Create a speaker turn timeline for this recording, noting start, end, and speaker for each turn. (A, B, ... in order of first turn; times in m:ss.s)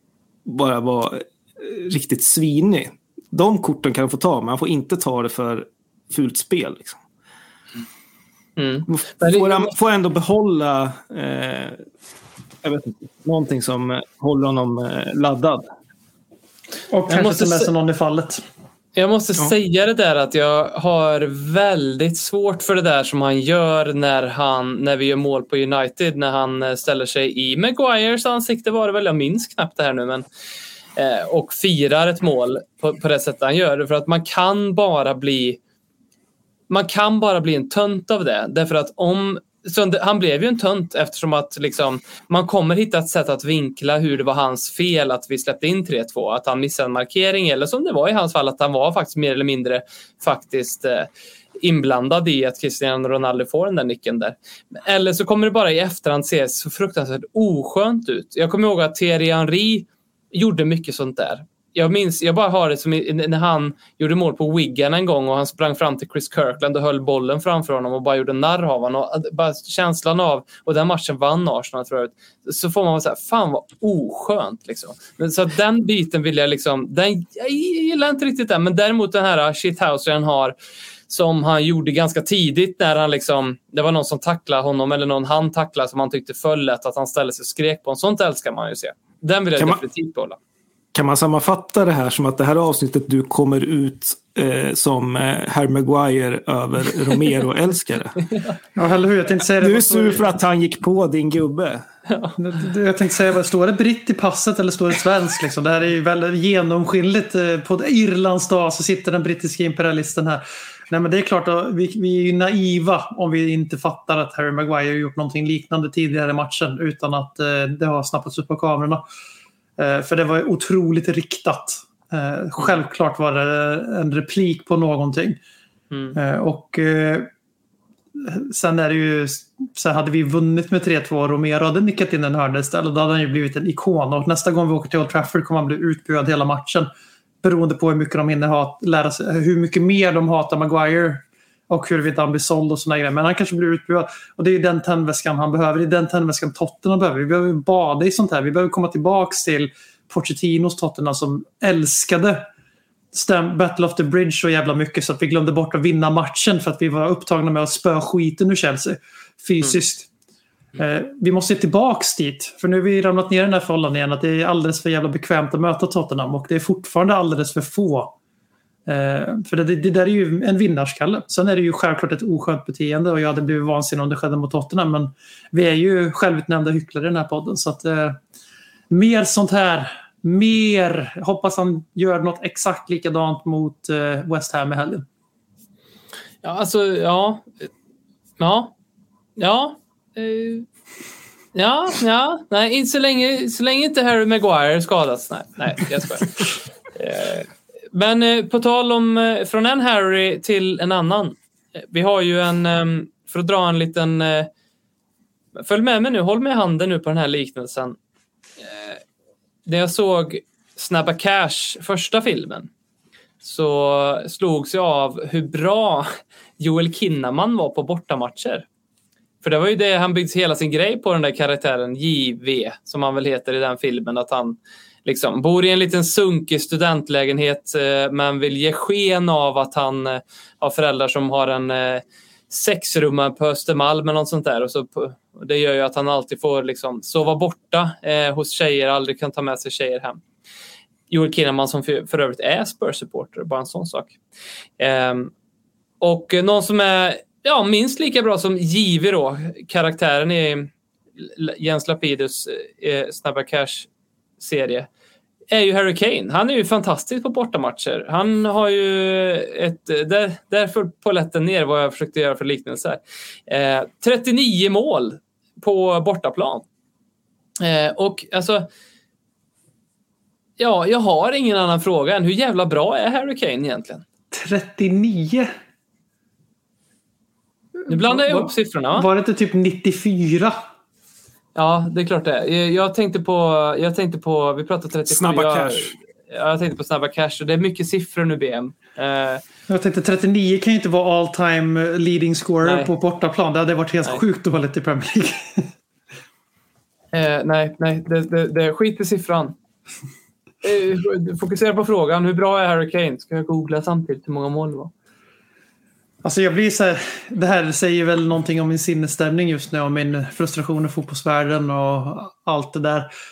0:00.4-0:07.0 A
0:08.6-0:09.7 B
0:08.9-0:11.8 A
0:12.6-0:15.6 A
0:16.9-0:18.4 C
0:17.1-0:17.7 B
0:18.9-0:30.2 B
0:31.0-0:35.6 B
0:36.7-0:51.1 B
0:51.6-1:20.5 B
1:21.1-1:30.4 B
1:30.9-1:38.2 A
1:38.7-1:40.2 C
1:39.6-1:41.8 A
1:42.1-1:42.3 B
1:42.4-1:59.0 C
1:59.8-2:05.4 C
2:05.9-2:06.2 B
2:06.1-2:07.3 C
2:08.2-2:16.9 C
2:17.4-2:32.4 C
2:33.1-2:40.1 C
2:40.8-2:48.1 C
2:48.9-2:58.2 C
2:58.9-3:05.0 C
3:06.4-3:07.7 B
3:08.4-3:08.7 B
3:09.4-3:10.6 B
3:11.5-3:21.4 B
3:21.9-3:24.5 B
3:25.6-3:28.0 B
3:28.6-3:29.0 B
3:29.6-3:32.7 B
3:33.4-3:38.6 B
3:39.4-4:00.2 B
4:01.1-4:04.2 B
4:04.8-4:05.3 B
4:06.0-4:10.7 B
4:11.2-4:13.9 B
4:14.4-4:14.9 B
4:15.5-4:26.6 B
4:27.6-4:28.7 B
4:30.6-4:34.0 B
4:34.3-4:35.5 C
4:37.9-4:40.6 C
4:37.9-4:39.1 B
4:41.5-4:49.4 B
4:45.1-4:45.9 A
4:49.7-4:55.7 C
4:52.6-4:52.9 B
4:57.1-4:59.5 B
5:00.6-5:04.9 B
5:06.2-5:13.1 C